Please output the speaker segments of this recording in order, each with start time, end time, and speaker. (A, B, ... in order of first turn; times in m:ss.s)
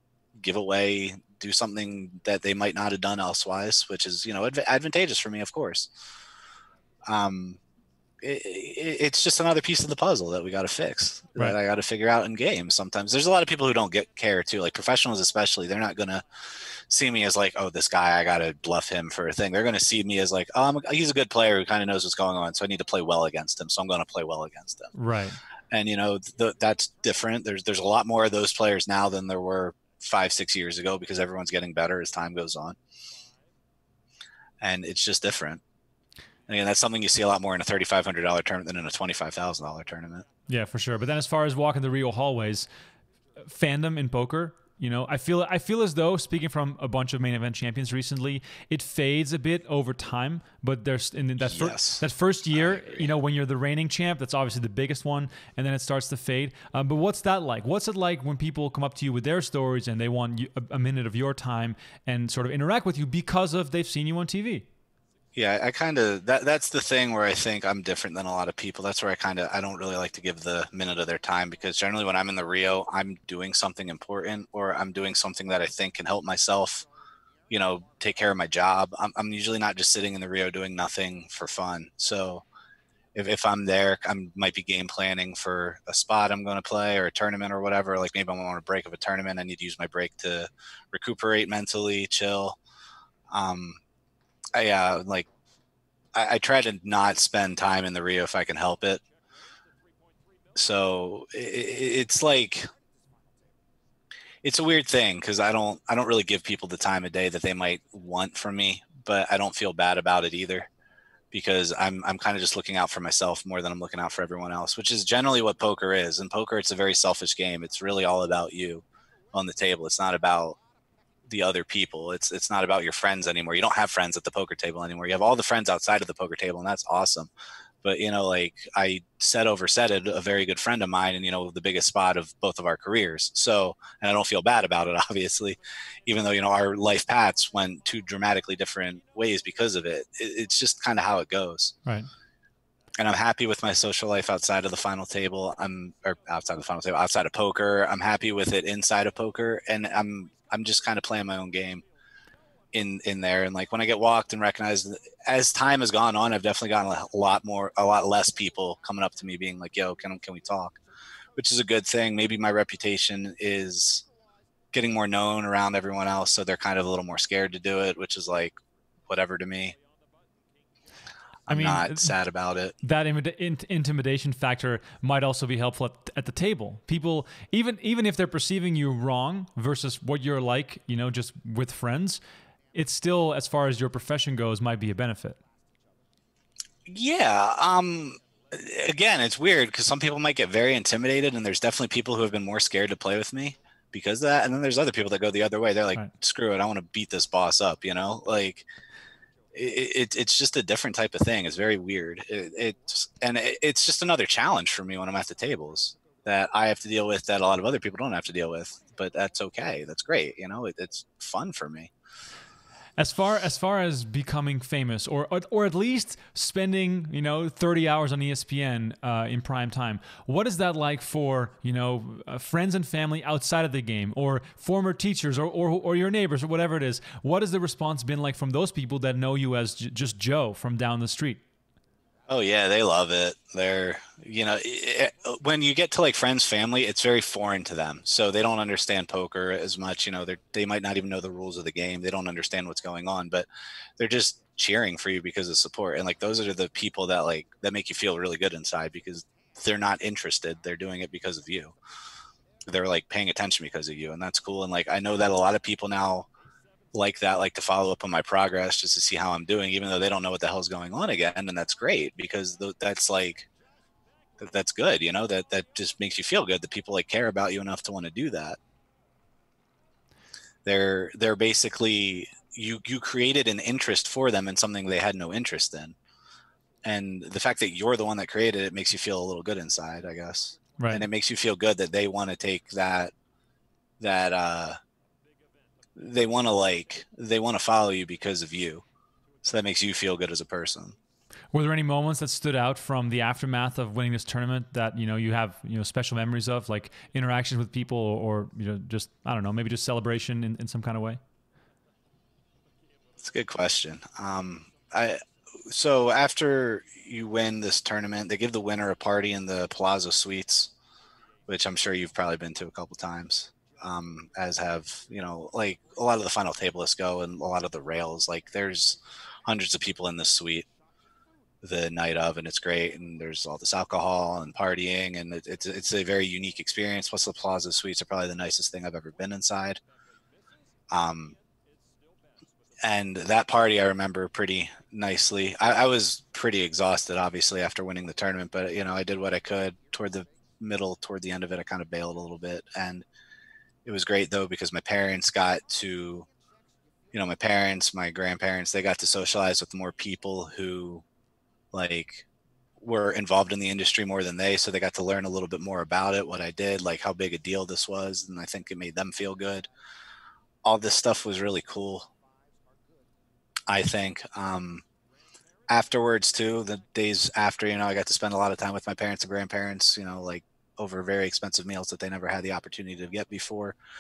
0:00.4-0:05.9 A
0:07.1-0:07.6 A
0:08.2-0:16.2 A
0:16.9-0:24.9 A
0:24.9-0:25.4 B
0:25.7-0:32.8 A
0:34.6-0:35.6 A
0:36.5-0:40.2 A
0:40.5-0:42.7 B
0:43.5-1:04.7 B
0:51.4-0:53.1 A
1:05.4-1:16.8 A
1:17.5-1:22.4 A
1:23.2-1:32.6 A
1:33.3-1:33.8 A
1:34.6-1:35.3 A
1:36.1-1:39.0 A
1:40.6-1:42.7 A
1:44.4-1:50.7 A
1:51.3-2:00.6 A
2:01.3-2:07.3 A
2:07.8-2:21.7 A
2:21.8-2:22.1 B
2:23.0-2:31.8 A
2:32.7-2:40.8 A
2:41.4-2:44.0 A
2:44.7-2:49.8 A
2:51.5-2:52.8 A
2:51.5-2:52.1 B
2:52.8-3:02.2 B
3:02.7-3:05.4 B
3:06.9-3:18.7 A
3:19.5-3:31.9 A
3:33.0-3:51.4 B
3:52.3-4:03.5 A
4:04.0-4:11.7 A
4:12.7-4:16.3 A
4:16.9-4:23.5 A
4:24.4-4:28.6 A
4:30.6-4:36.0 A
4:36.8-4:43.1 A
4:40.8-4:41.0 B
4:44.0-4:44.8 A
4:46.0-4:48.8 A
4:49.4-4:50.9 A
4:51.5-5:01.2 B
5:03.2-5:10.7 A
5:11.5-5:20.7 A
5:21.6-5:29.8 A
5:30.9-5:31.3 A
5:32.8-5:43.0 A
5:43.8-5:46.3 A
5:47.1-5:51.0 A
5:51.7-5:52.3 A
5:52.8-5:59.7 A
6:00.6-6:02.1 A
6:03.7-6:04.8 A
6:05.7-6:13.8 A